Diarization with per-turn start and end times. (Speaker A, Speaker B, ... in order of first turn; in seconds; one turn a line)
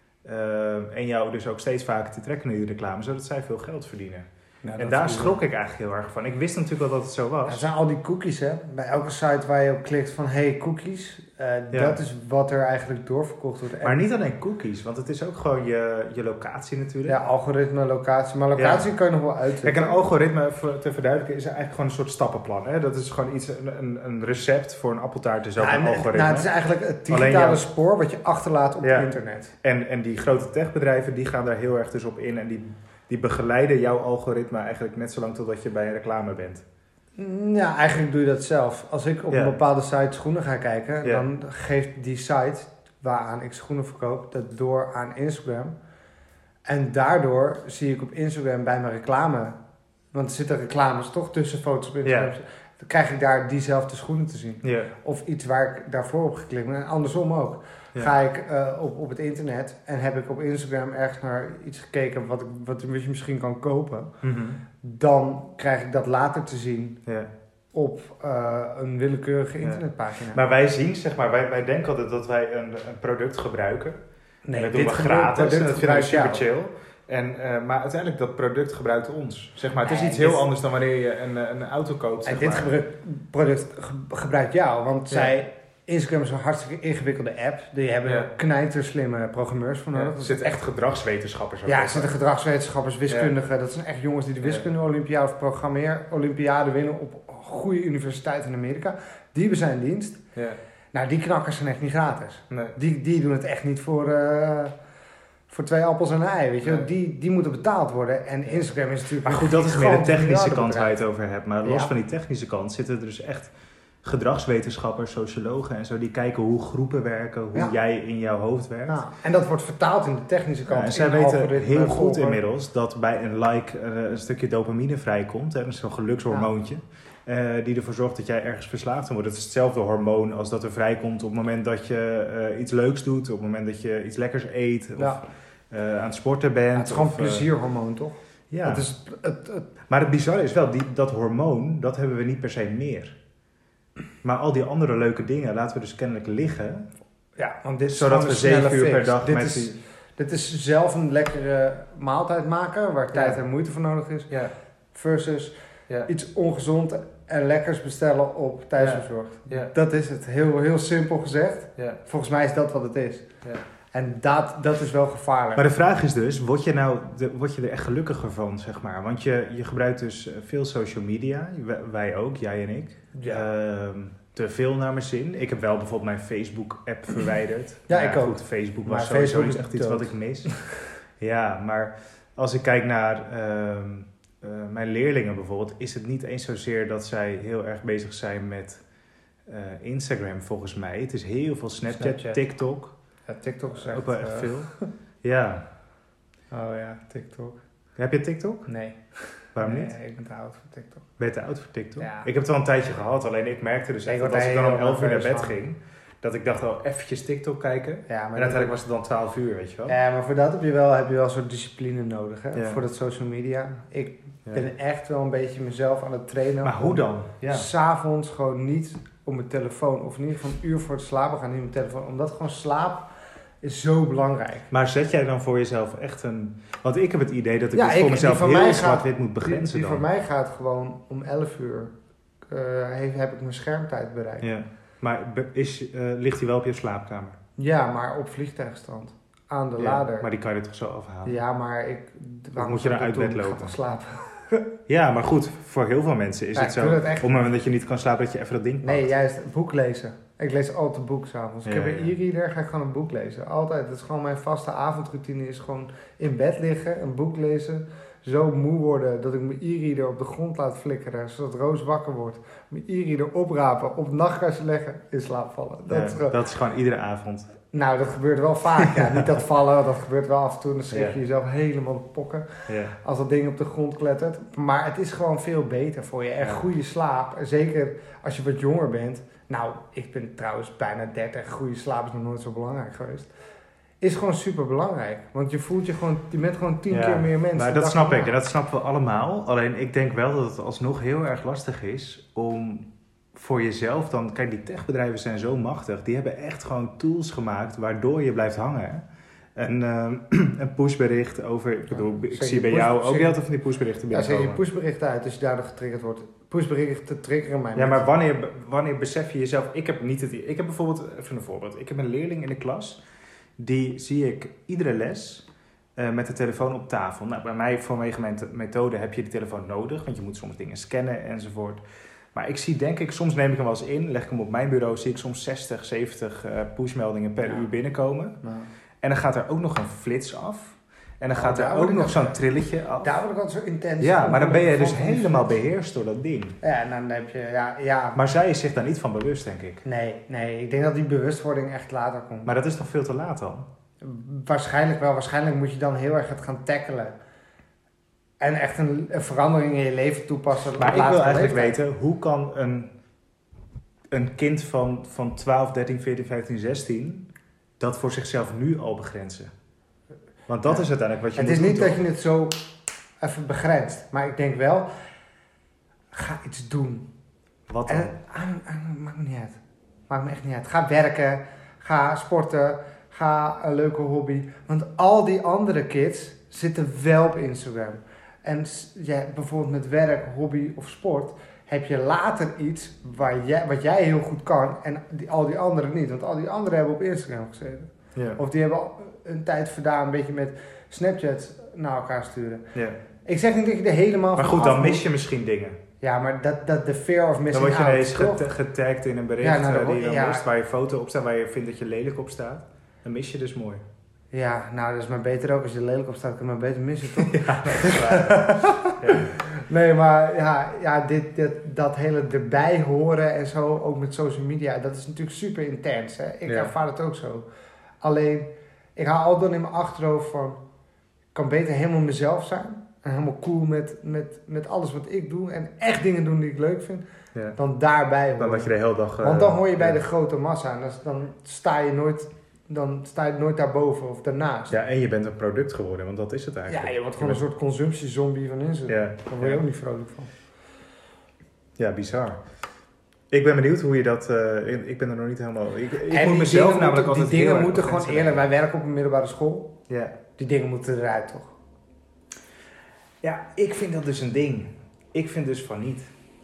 Speaker A: 0.2-7.7
Speaker B: 4.6-5.4
Speaker B: 7.5-14.0
Speaker A: 11.7-12.0
Speaker A: 13.8-17.2
Speaker B: 17.1-20.0
Speaker A: 18.6-18.9
Speaker A: 19.6-26.5
Speaker B: 25.6-29.5
Speaker A: 27.1-27.6
Speaker A: 28.8-29.1
Speaker A: 29.6-36.6
Speaker B: 37.2-45.8
Speaker A: 39.3-39.6
Speaker B: 46.7-49.6
Speaker B: 50.1-64.2
Speaker A: 52.0-52.3
Speaker A: 54.6-54.9
Speaker A: 64.2-64.6
Speaker B: 64.8-67.0
Speaker B: 67.7-70.4
Speaker A: 69.6-74.0
Speaker B: 74.5-76.4
Speaker A: 74.6-82.7
Speaker B: 79.8-80.5
Speaker B: 82.2-90.6
Speaker A: 85.1-85.4
Speaker A: 88.0-88.3
Speaker A: 89.9-92.1
Speaker B: 91.7-100.2
Speaker A: 93.1-93.3
Speaker A: 94.4-94.7
Speaker B: 100.9-104.8
Speaker A: 102.5-102.8
Speaker B: 105.5-111.0
Speaker A: 106.6-106.9
Speaker A: 109.2-113.5
Speaker B: 111.6-111.9
Speaker A: 114.0-119.0
Speaker B: 118.9-122.4
Speaker A: 120.7-137.5
Speaker B: 136.8-139.7
Speaker A: 138.5-138.9
Speaker A: 139.9-143.2
Speaker A: 144.2-146.9
Speaker B: 147.4-154.3
Speaker A: 147.9-149.8
Speaker A: 153.1-153.4
Speaker A: 154.3-154.5
Speaker B: 154.9-163.3
Speaker A: 158.8-159.7
Speaker B: 163.9-165.7
Speaker A: 165.6-180.6
Speaker B: 173.1-173.5
Speaker B: 177.9-180.6
Speaker A: 181.2-188.8
Speaker A: 189.5-192.9
Speaker B: 191.9-192.4
Speaker B: 193.3-194.9
Speaker A: 193.7-194.7
Speaker A: 195.2-195.7
Speaker B: 196.5-197.6
Speaker A: 198.0-198.7
Speaker B: 198.7-201.1
Speaker A: 199.6-199.9
Speaker A: 201.2-210.0
Speaker B: 202.0-202.3
Speaker B: 204.1-205.6
Speaker B: 208.1-208.8
Speaker B: 209.9-223.1
Speaker A: 212.5-212.8
Speaker A: 216.6-217.7
Speaker B: 223.6-224.7
Speaker A: 224.7-230.1
Speaker B: 227.7-231.9
Speaker B: 232.5-234.5
Speaker A: 234.4-237.4
Speaker B: 237.6-240.3
Speaker A: 239.8-241.3
Speaker B: 241.2-244.6
Speaker A: 242.6-243.8
Speaker A: 244.9-249.1
Speaker B: 246.6-247.3
Speaker B: 248.8-266.4
Speaker A: 251.7-252.1
Speaker A: 265.9-267.5
Speaker B: 267.7-283.3
Speaker A: 268.8-269.2
Speaker A: 270.9-271.2
Speaker A: 272.7-272.9
Speaker B: 284.0-288.4
Speaker A: 286.9-299.0
Speaker A: 299.6-304.6
Speaker B: 301.9-303.4
Speaker B: 304.1-308.1
Speaker A: 307.8-313.0
Speaker A: 313.6-321.8
Speaker A: 322.3-328.4
Speaker B: 328.4-328.7
Speaker A: 329.0-333.1
Speaker B: 331.4-332.3
Speaker B: 333.0-335.6
Speaker A: 334.0-336.6
Speaker B: 336.6-338.2
Speaker A: 338.1-339.8
Speaker B: 339.8-342.5
Speaker A: 342.4-343.7
Speaker B: 344.0-347.2
Speaker B: 348.4-351.8
Speaker A: 350.8-352.9
Speaker A: 354.1-357.3
Speaker A: 357.8-359.5
Speaker A: 360.5-362.0
Speaker B: 360.7-362.6
Speaker B: 363.2-364.9
Speaker B: 366.1-367.1
Speaker A: 367.7-368.1
Speaker B: 367.9-392.7
Speaker A: 388.1-388.4
Speaker B: 393.2-395.1
Speaker A: 394.4-395.8
Speaker B: 396.0-398.5
Speaker A: 397.5-403.8
Speaker B: 399.4-400.4
Speaker B: 404.3-417.5
Speaker A: 407.2-409.3
Speaker A: 416.5-416.7
Speaker B: 418.0-420.6
Speaker B: 421.3-427.1
Speaker B: 427.6-434.7
Speaker A: 428.4-430.0
Speaker A: 434.7-437.4
Speaker B: 436.7-440.3
Speaker A: 438.9-439.6
Speaker A: 441.8-442.4
Speaker A: 443.3-448.4
Speaker B: 446.1-449.8
Speaker A: 449.9-450.2
Speaker B: 450.4-451.5
Speaker A: 453.2-456.1